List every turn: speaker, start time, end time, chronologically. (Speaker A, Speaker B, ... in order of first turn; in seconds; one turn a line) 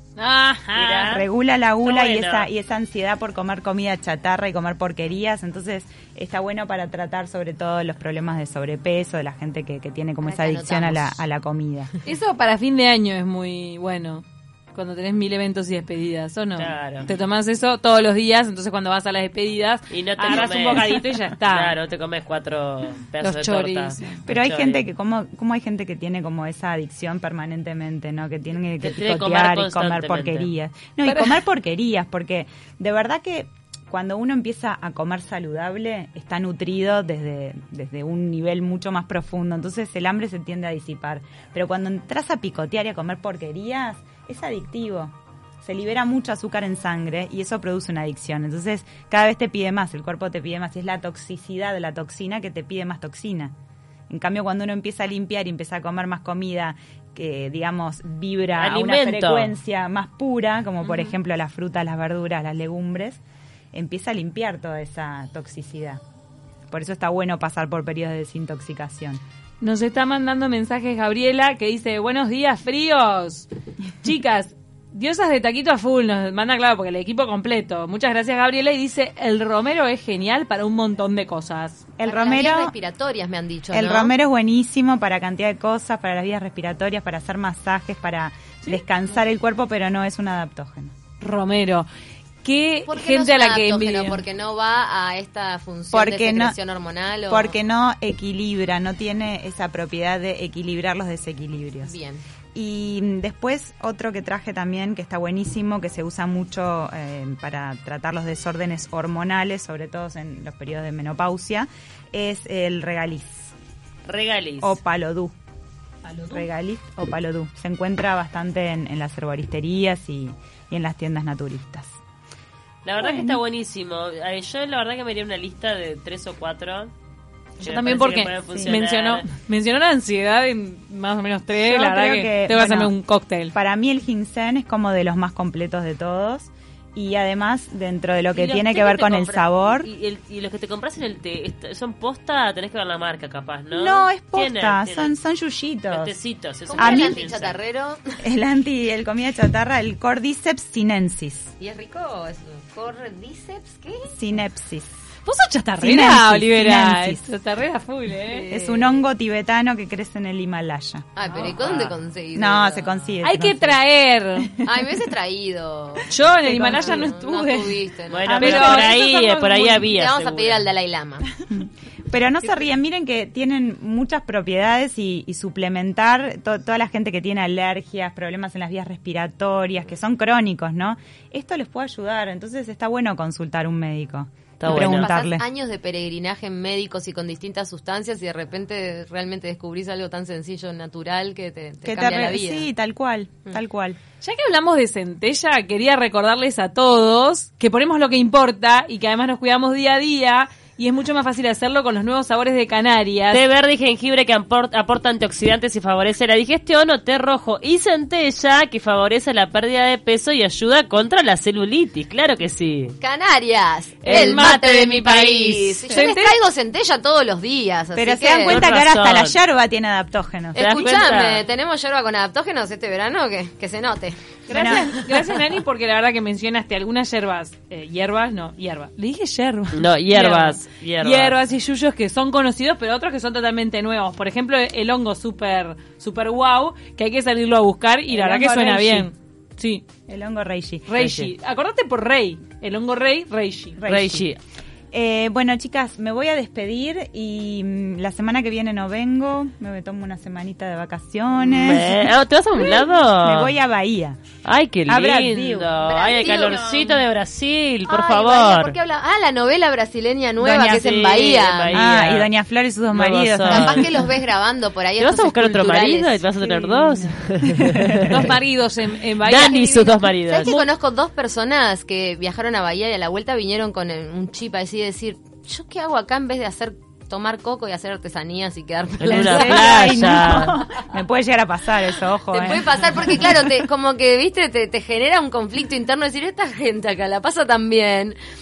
Speaker A: 0.2-1.2
Speaker B: 0.7-1.2
Speaker C: 1.1-11.9
Speaker B: 1.8-2.5
Speaker D: 10.2-11.2
Speaker A: 12.0-21.8
Speaker B: 16.6-17.1
Speaker B: 19.9-21.0
Speaker B: 21.5-24.8
Speaker A: 23.2-24.2
Speaker C: 24.2-53.5
Speaker B: 28.8-30.5
Speaker A: 31.0-31.4
Speaker C: 54.1-63.2
Speaker B: 58.6-59.5
Speaker A: 60.8-61.1
Speaker C: 63.7-66.0
Speaker C: 66.7-69.2
Speaker A: 69.6-73.5
Speaker A: 74.0-81.9
Speaker C: 82.0-82.7
Speaker D: 82.0-84.1
Speaker C: 83.7-90.9
Speaker A: 91.2-91.9
Speaker A: 92.4-94.2
Speaker D: 92.9-97.5
Speaker C: 95.9-96.6
Speaker C: 97.3-101.9
Speaker D: 101.8-102.2
Speaker C: 102.5-113.5
Speaker B: 114.0-114.8
Speaker C: 114.6-115.3
Speaker A: 116.0-116.5
Speaker C: 116.3-122.0
Speaker B: 122.8-126.9
Speaker C: 123.0-123.4
Speaker B: 127.6-129.2
Speaker A: 127.6-133.5
Speaker C: 131.6-132.9
Speaker C: 133.5-139.9
Speaker B: 138.3-145.1
Speaker C: 143.7-146.1
Speaker B: 145.9-147.6
Speaker D: 146.7-148.2
Speaker C: 146.7-147.2
Speaker C: 148.2-151.5
Speaker D: 151.6-154.1
Speaker C: 154.1-154.9
Speaker A: 155.2-158.5
Speaker C: 155.8-157.3
Speaker D: 158.4-158.9
Speaker C: 158.5-161.1
Speaker D: 161.2-163.1
Speaker B: 161.4-162.0
Speaker C: 162.3-163.8
Speaker A: 163.2-164.6
Speaker D: 164.6-168.3
Speaker A: 166.1-169.9
Speaker B: 168.1-170.7
Speaker C: 168.2-168.9
Speaker D: 169.8-171.3
Speaker C: 171.5-185.4
Speaker B: 184.6-185.1
Speaker D: 184.7-192.7
Speaker C: 191.8-194.0
Speaker A: 194.2-203.4
Speaker B: 203.3-212.9
Speaker D: 213.0-218.6
Speaker B: 214.0-215.9
Speaker A: 214.1-214.7
Speaker A: 215.9-216.3
Speaker C: 217.9-220.6
Speaker B: 218.4-219.4
Speaker D: 220.5-224.2
Speaker B: 220.6-221.4
Speaker A: 224.5-239.8
Speaker C: 224.5-224.9
Speaker B: 229.7-231.4
Speaker C: 238.1-239.1
Speaker C: 240.1-240.8
Speaker A: 240.9-243.8
Speaker B: 240.9-241.3
Speaker C: 243.8-244.3
Speaker B: 243.8-244.4
Speaker C: 244.9-252.1
Speaker B: 251.5-253.5
Speaker C: 252.6-254.2
Speaker B: 254.4-258.8
Speaker C: 254.9-255.7
Speaker D: 255.8-257.0
Speaker D: 257.9-261.7
Speaker B: 260.4-262.3
Speaker C: 261.7-263.9
Speaker B: 262.9-263.9
Speaker D: 263.5-266.2
Speaker B: 265.0-268.3
Speaker A: 266.5-267.2
Speaker A: 267.8-270.7
Speaker B: 269.2-270.5
Speaker D: 270.2-280.3
Speaker B: 279.0-280.5
Speaker C: 279.1-283.3
Speaker D: 282.3-288.2